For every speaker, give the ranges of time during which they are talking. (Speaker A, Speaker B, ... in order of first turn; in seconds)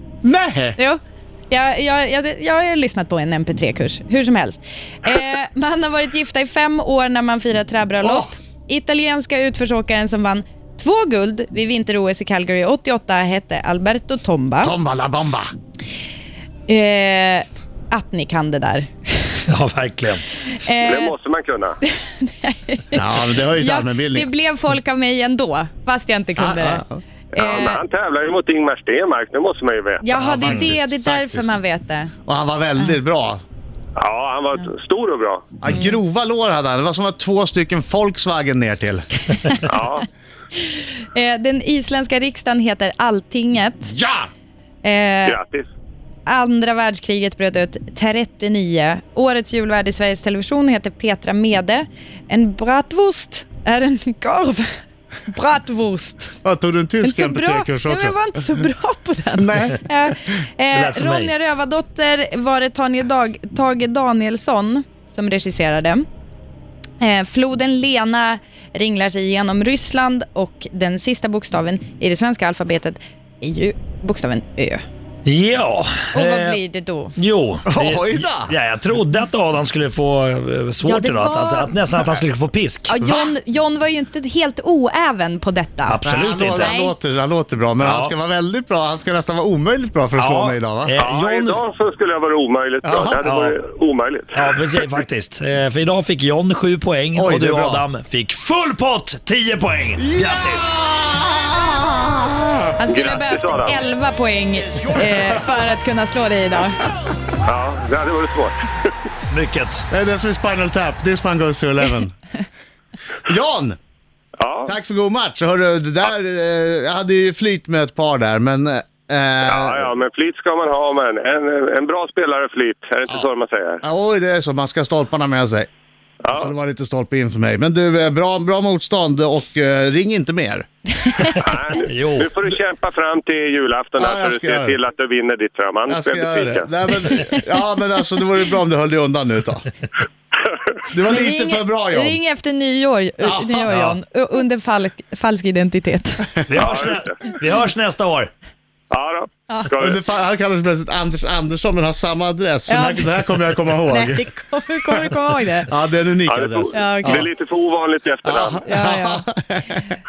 Speaker A: 0.2-0.8, 8.0-8.3, 14.6-15.5, 22.9-24.3, 26.4-27.0, 30.1-31.6, 32.3-33.4, 35.6-39.2, 43.9-44.3, 56.4-58.4, 59.4-59.8, 77.7-78.5, 83.0-83.3, 86.0-90.9, 92.8-93.2, 97.2-97.9, 100.0-101.5, 104.8-105.4, 109.9-112.1, 113.3-113.8, 114.7-119.9, 123.8-125.7, 126.3-130.7, 134.0-134.8, 135.9-139.7, 140.9-142.2, 143.2-143.7, 149.8-154.3, 155.7-157.3, 158.2-159.8
Speaker B: 0.8-14.8, 16.7-19.4, 20.5-21.1, 21.8-23.0, 23.6-27.8, 30.0-32.1, 35.7-35.9, 41.1-43.9, 44.8-45.4, 46.3-54.7, 55.3-56.4, 57.0-66.1, 67.0-74.8, 76.1-77.2, 80.8-81.8, 82.9-86.0, 86.5-86.9, 102.8-106.8, 137.1-137.4, 141.0-146.3, 152.7-153.2, 153.9-155.7, 156.7-157.3, 158.7-159.2
Speaker C: 19.5-20.2, 60.7-61.3, 75.3-76.6, 77.2-83.0, 85.9-86.7, 87.8-88.1, 90.2-91.6, 93.2-93.6, 94.3-100.8, 109.3-109.8, 131.7-132.3, 143.7-144.0, 146.5-148.3
Speaker D: 20.8-21.8, 27.4-30.0, 34.0-35.5, 39.6-40.1, 45.3-45.7, 91.0-94.5, 102.9-103.8, 107.5-108.9, 114.4-114.7, 119.5-123.8, 126.2-126.5, 131.4-136.7, 146.5-147.2, 148.9-150.0, 156.3-158.7